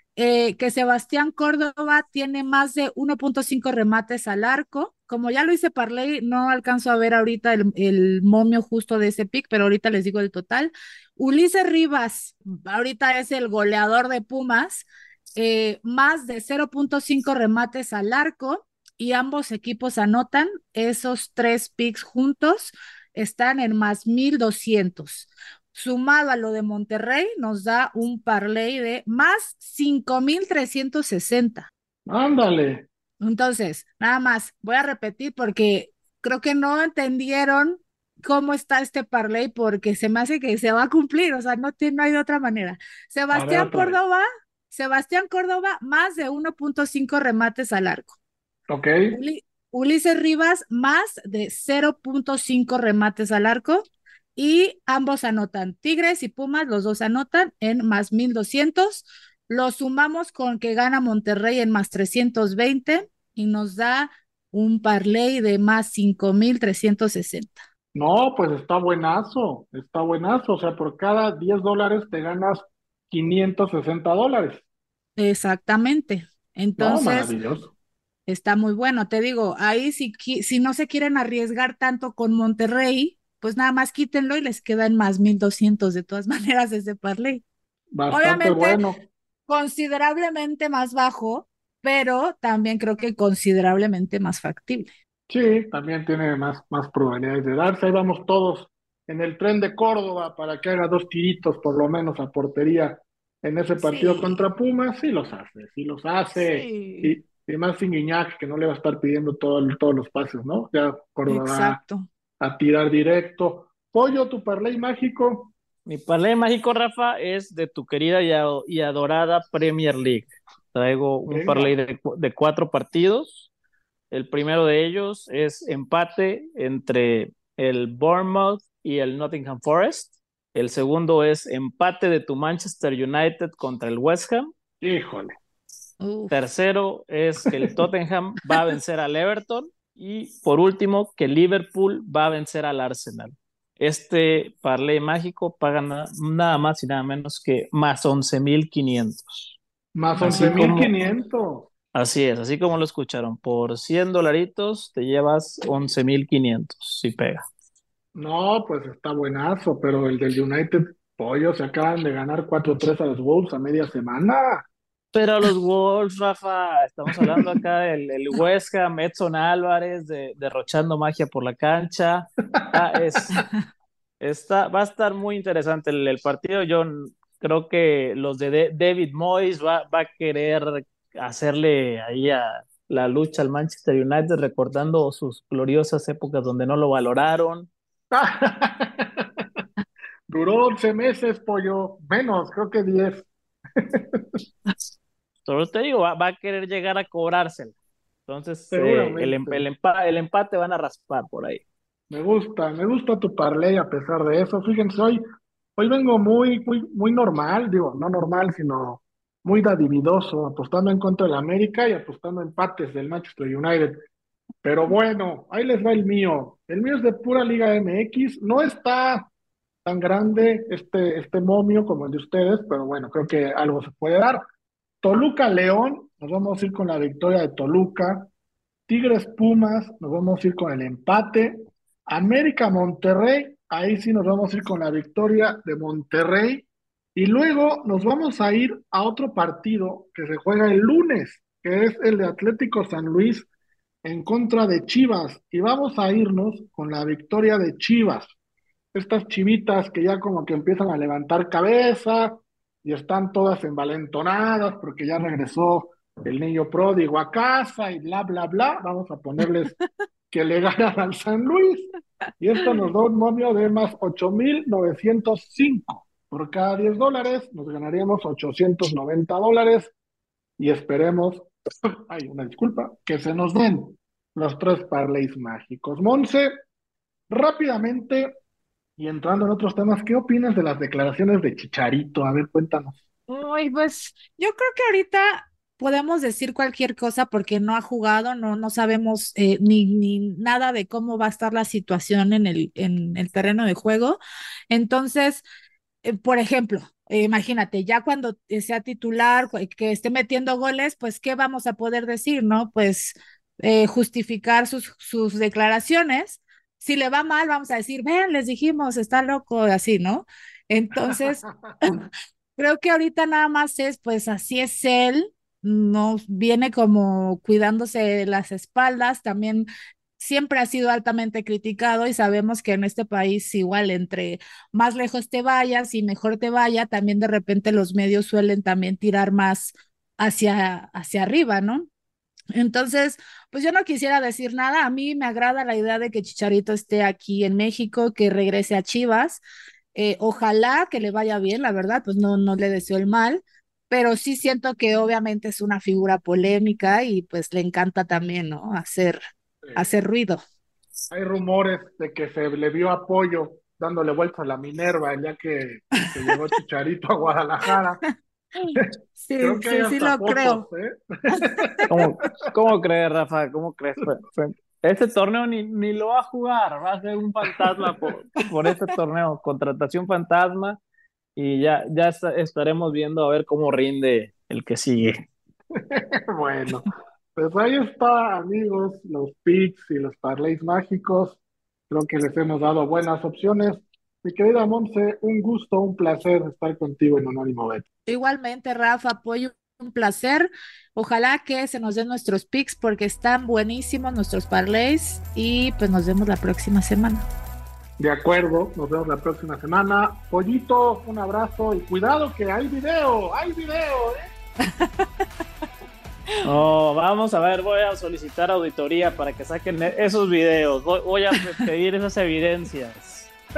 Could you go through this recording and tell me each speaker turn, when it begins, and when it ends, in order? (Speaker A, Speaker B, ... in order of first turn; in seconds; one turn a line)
Speaker A: 0.1-14.8
Speaker A: 15.4-31.7
Speaker B: 32.1-32.9
Speaker A: 33.2-48.1
Speaker B: 43.3-44.0
Speaker B: 48.7-49.2
Speaker A: 49.1-67.6
Speaker B: 67.9-74.6
Speaker A: 75.2-77.3
Speaker B: 76.8-77.7
Speaker A: 78.3-87.4
Speaker B: 87.9-89.0
Speaker A: 88.1-88.8
Speaker A: 89.5-94.9
Speaker B: 95.3-111.8
Speaker A: 103.8-104.4
Speaker A: 106.4-107.2
Speaker A: 111.3-112.1
Speaker B: 112.4-115.5
Speaker C: 115.8-123.5
Speaker B: 121.3-121.8
Speaker C: 124.1-134.5
Speaker B: 134.8-135.3
Speaker A: 136.0-136.3
Speaker C: 136.3-149.6
Speaker B: 149.9-151.7
Speaker C: 150.2-150.9
Speaker A: 150.2-150.6
Speaker C: 151.9-157.4
Speaker B: 158.1-164.6
Speaker C: 165.1-173.4
Speaker C: 174.2-187.7
Speaker B: 188.1-189.2
Speaker B: 190.3-194.4
Speaker C: 195.4-197.7
Speaker C: 198.3-201.6
Speaker B: 198.7-199.6
Speaker B: 202.1-205.2
Speaker B: 205.8-214.0
Speaker B: 214.6-219.3
Speaker B: 219.8-224.4
Speaker B: 225.0-228.3
Speaker B: 228.9-243.4
Speaker B: 244.0-248.3
Speaker B: 248.9-259.7
Speaker A: 259.4-259.7
Speaker B: 260.3-261.9
Speaker B: 262.4-269.9
Speaker B: 270.6-271.5
Speaker B: 272.1-276.5
Speaker B: 277.3-278.3
Speaker B: 279.0-282.9
Speaker A: 283.3-294.2
Speaker A: 294.7-295.4
Speaker A: 296.0-311.4
Speaker B: 311.0-311.7
Speaker A: 312.6-319.6
Speaker A: 320.2-331.9
Speaker A: 332.5-339.4
Speaker A: 339.9-349.2
Speaker B: 349.6-349.9
Speaker A: 349.8-350.4
Speaker B: 351.1-358.0
Speaker A: 358.6-360.6
Speaker B: 359.4-360.9
Speaker A: 361.4-361.6
Speaker B: 361.4-361.7
Speaker C: 361.9-370.8
Speaker C: 371.4-375.1
Speaker B: 375.9-381.4
Speaker B: 381.9-387.8
Speaker A: 388.1-397.3
Speaker B: 398.0-404.2
Speaker A: 404.7-405.1
Speaker C: 406.4-413.3